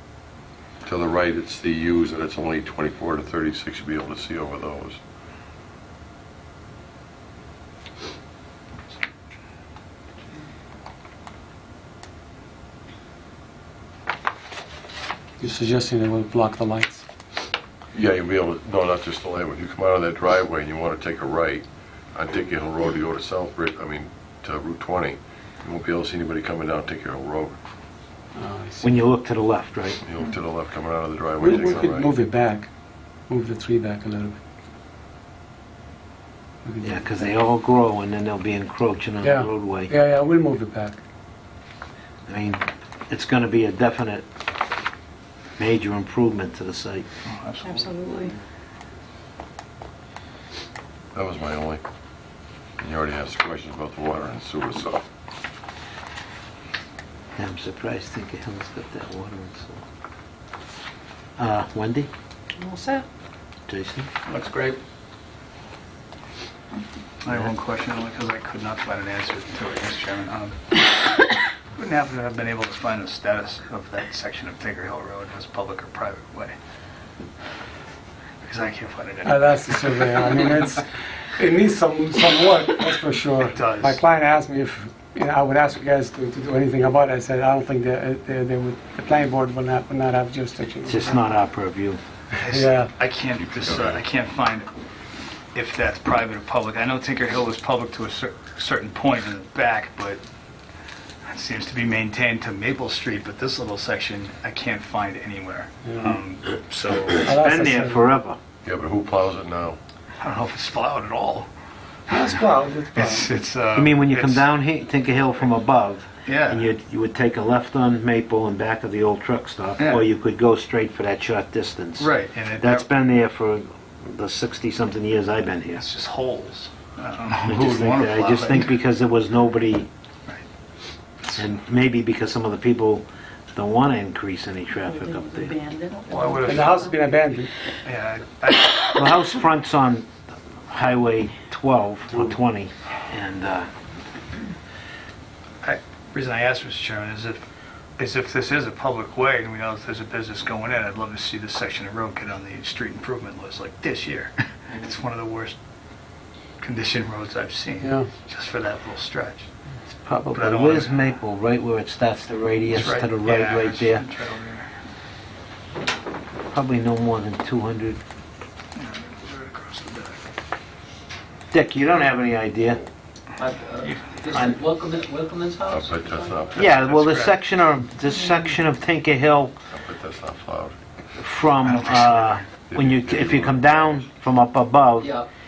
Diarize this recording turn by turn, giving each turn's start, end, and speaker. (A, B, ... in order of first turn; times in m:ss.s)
0:00.8-0:05.0 A
0:15.4-0:17.0 B
0:17.9-0:27.6 A
0:28.4-0:29.0 B
0:28.8-0:30.0 C
0:30.0-0:32.1 A
0:31.4-0:32.7 B
0:33.3-0:34.4 B
0:36.6-0:37.3 B
0:36.8-0:39.9 C
0:39.2-0:41.0 B
0:42.3-0:44.3 C
0:45.6-0:47.1 C
0:47.3-0:48.0 D
0:47.6-0:48.3 E
0:51.1-0:51.8 A
0:52.8-0:55.1 A
0:57.4-0:59.8 C
1:01.4-1:02.1 C
1:02.6-1:03.0 E
1:03.7-1:04.1 C
1:04.3-1:04.8 D
1:07.2-1:16.5 D
1:18.4-1:20.2 D
1:19.2-1:31.2 B
1:23.5-1:24.0 D
1:30.8-1:32.0 C
1:32.4-1:34.7 D
1:32.5-1:32.9 B
1:33.4-1:34.0 A
1:35.5-1:40.2 D
1:41.3-1:47.3 D
1:45.8-1:46.2 B
1:47.2-1:48.0 B
1:47.2-1:48.4 C
1:48.6-1:49.8 A
1:50.2-1:51.5 D
1:52.1-1:52.4 D
1:52.1-1:53.3 B
1:52.9-1:54.5 D
1:53.7-2:05.8 C
1:56.3-1:56.7 D
1:59.8-2:00.1 D
2:02.0-2:02.9 D
2:05.8-2:08.8 D
2:07.5-2:09.9 C
2:11.4-2:15.6 C
2:14.9-2:17.0 E
2:16.1-2:16.8 D
2:16.4-2:17.5 B
2:17.8-2:19.2 D
2:18.9-2:20.1 C
2:20.7-2:23.7 C
2:25.6-2:27.4 D
2:28.0-2:35.6 D
2:36.6-2:39.5 D
2:37.8-2:38.1 B
2:40.0-2:44.0 C
2:40.3-2:41.0 D
2:42.7-2:44.7 D
2:46.5-2:48.0 C
2:48.8-2:50.2 D
2:51.5-2:52.8 C
2:53.4-2:56.5 F
2:54.3-2:54.6 C
2:55.7-2:56.7 A
2:56.5-2:57.4 D
2:56.5-2:59.5 C
2:59.7-3:00.8 A
3:01.2-3:05.1 C
3:01.6-3:02.4 D
3:02.7-3:04.0 A
3:05.0-3:05.3 F